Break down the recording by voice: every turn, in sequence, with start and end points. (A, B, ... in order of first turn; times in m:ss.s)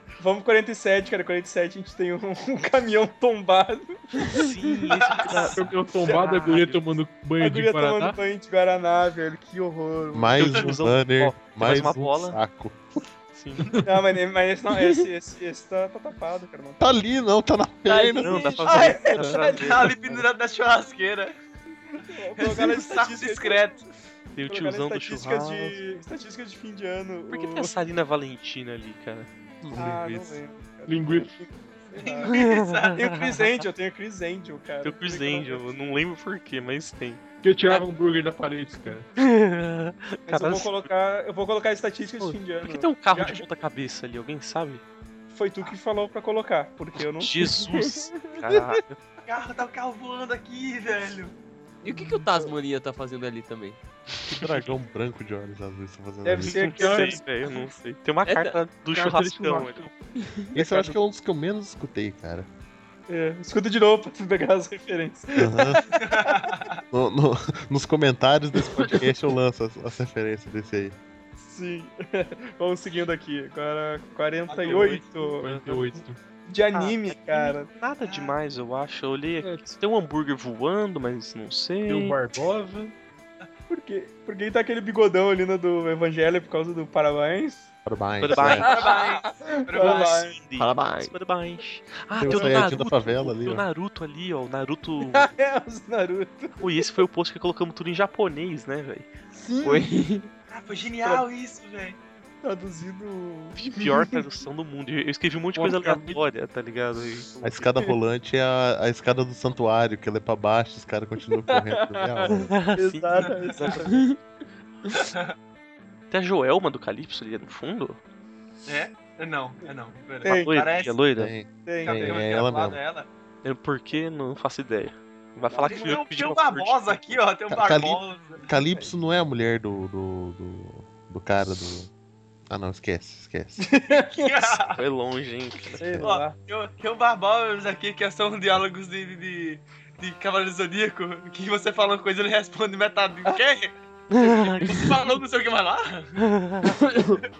0:00.2-0:03.9 A
0:04.3-0:06.9 B
0:05.0-0:05.5 C
0:05.3-0:08.2 D
0:06.0-0:06.3 A
0:07.4-0:10.5 A
0:10.1-0:12.8 E
0:10.4-0:12.4 B
0:13.3-0:13.7 B
0:13.6-0:14.0 D
0:13.8-0:16.9 A
0:16.8-0:18.8 E
0:17.9-0:19.8 A
0:18.2-0:19.9 B
0:18.6-0:19.0 C
0:19.5-0:21.3 C
0:22.1-0:23.6 A
0:22.4-0:23.8 C
0:24.4-0:25.9 B
0:24.5-0:27.7 A
0:27.3-0:29.3 B
0:29.6-0:30.4 E
0:29.7-0:32.4 A
0:30.9-0:31.4 D
0:32.0-0:33.0 C
0:32.3-0:33.6 B
0:32.9-0:35.8 A
0:34.8-0:37.8 B
0:37.4-0:39.1 D
0:39.2-0:40.9 B
0:40.3-0:43.4 A
0:42.2-0:44.8 B
0:45.3-0:47.3 A
0:47.2-0:49.0 B
0:47.4-0:48.1 F
0:49.3-0:51.3 C
0:51.8-0:52.5 A
0:51.8-0:53.8 F
0:54.2-0:56.8 E
0:54.4-0:54.7 B
0:56.2-0:57.2 A
0:56.4-0:59.9 B
0:56.8-0:57.2 D
0:58.2-0:58.6 F
0:58.9-0:59.9 D
1:00.5-1:02.5 E
1:00.6-1:00.9 A
1:03.1-1:06.5 A
1:05.4-1:05.8 E
1:05.9-1:06.8 C
1:06.9-1:11.0 E
1:11.4-1:15.5 A
1:14.5-1:15.0 C
1:14.6-1:15.8 B
1:14.8-1:16.2 D
1:16.5-1:17.7 A
1:16.7-1:22.2 B
1:18.0-1:18.3 C
1:21.9-1:22.9 D
1:23.7-1:27.7 A
1:27.8-1:28.7 E
1:28.2-1:28.8 B
1:28.4-1:30.2 C
1:28.4-1:30.4 A
1:29.8-1:35.3 B
1:30.6-1:31.1 F
1:32.2-1:33.6 E
1:32.2-1:32.6 A
1:35.1-1:36.7 A
1:36.6-1:39.1 B
1:39.3-1:39.9 A
1:39.6-1:40.3 F
1:40.5-1:42.0 C
1:42.4-1:44.2 A
1:43.5-1:47.7 B
1:45.6-1:46.2 D
1:47.4-1:52.5 E
1:51.5-1:54.1 A
1:52.3-1:53.9 B
1:53.8-1:54.1 F
1:54.9-1:55.3 C
1:56.1-1:58.0 B
1:58.6-2:01.0 C
2:00.2-2:00.6 A
2:00.2-2:01.3 B
2:01.2-2:02.8 E
2:01.6-2:02.2 A
2:01.8-2:03.1 C
2:03.4-2:07.1 B
2:05.5-2:08.4 C
2:07.5-2:11.9 E
2:12.5-2:13.6 E
2:13.6-2:14.6 A
2:14.2-2:14.8 C
2:14.8-2:15.8 B
2:15.8-2:16.3 A
2:16.0-2:26.2 C
2:24.1-2:25.0 B
2:26.2-2:26.8 B
2:26.8-2:27.2 F